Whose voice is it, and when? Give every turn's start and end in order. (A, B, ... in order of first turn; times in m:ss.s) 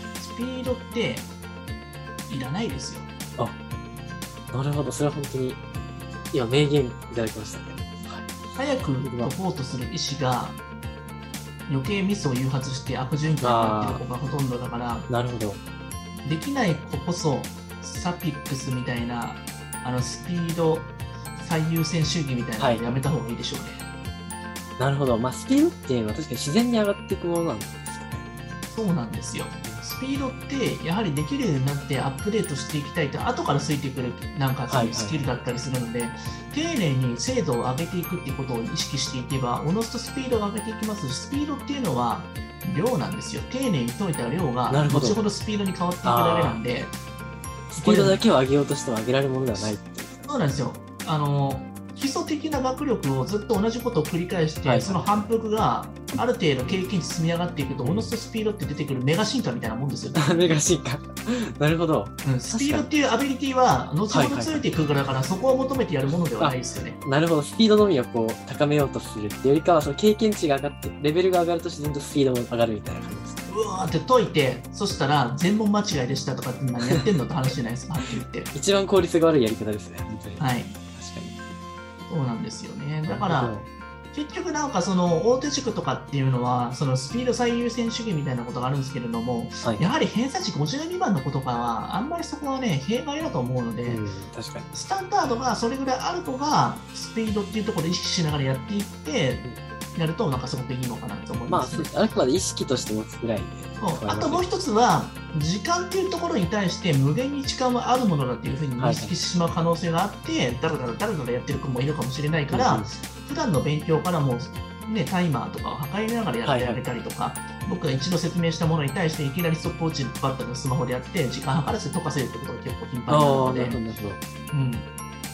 0:00.2-0:01.3 A
0:02.3-0:03.1 A
0:04.5-0:05.6 B
0:06.3-0:08.3 B
0:08.6-0:10.6 A
0:09.0-0:09.3 B
0:11.7-0:15.1 A
0:13.4-0:14.0 B
0:15.1-0:15.6 B
0:16.2-0:23.8 A
0:22.6-0:22.8 B
0:24.8-0:28.2 B
0:28.7-0:47.0 A
0:34.7-0:35.3 B
0:44.7-0:45.2 B
0:46.0-0:46.6 B
0:47.7-0:50.5 B
0:47.8-0:48.2 A
0:50.3-1:00.6 A
0:54.6-0:55.3 B
0:57.8-0:58.1 B
1:00.1-1:02.9 B
1:02.2-1:07.0 A
1:04.1-1:04.7 B
1:06.4-1:13.5 B
1:13.5-1:18.5 A
1:16.8-1:17.1 B
1:18.5-1:21.3 B
1:20.4-1:20.8 A
1:22.1-1:23.6 A
1:23.1-1:23.7 B
1:24.1-1:34.0 A
1:29.6-1:29.9 B
1:33.9-1:34.7 B
1:34.7-1:39.4 A
1:40.0-1:41.9 A
1:41.5-1:44.4 B
1:43.8-2:03.8 A
1:48.8-1:49.2 B
1:52.5-1:52.9 B
1:56.4-1:56.8 B
2:03.1-2:04.2 B
2:04.5-2:04.9 A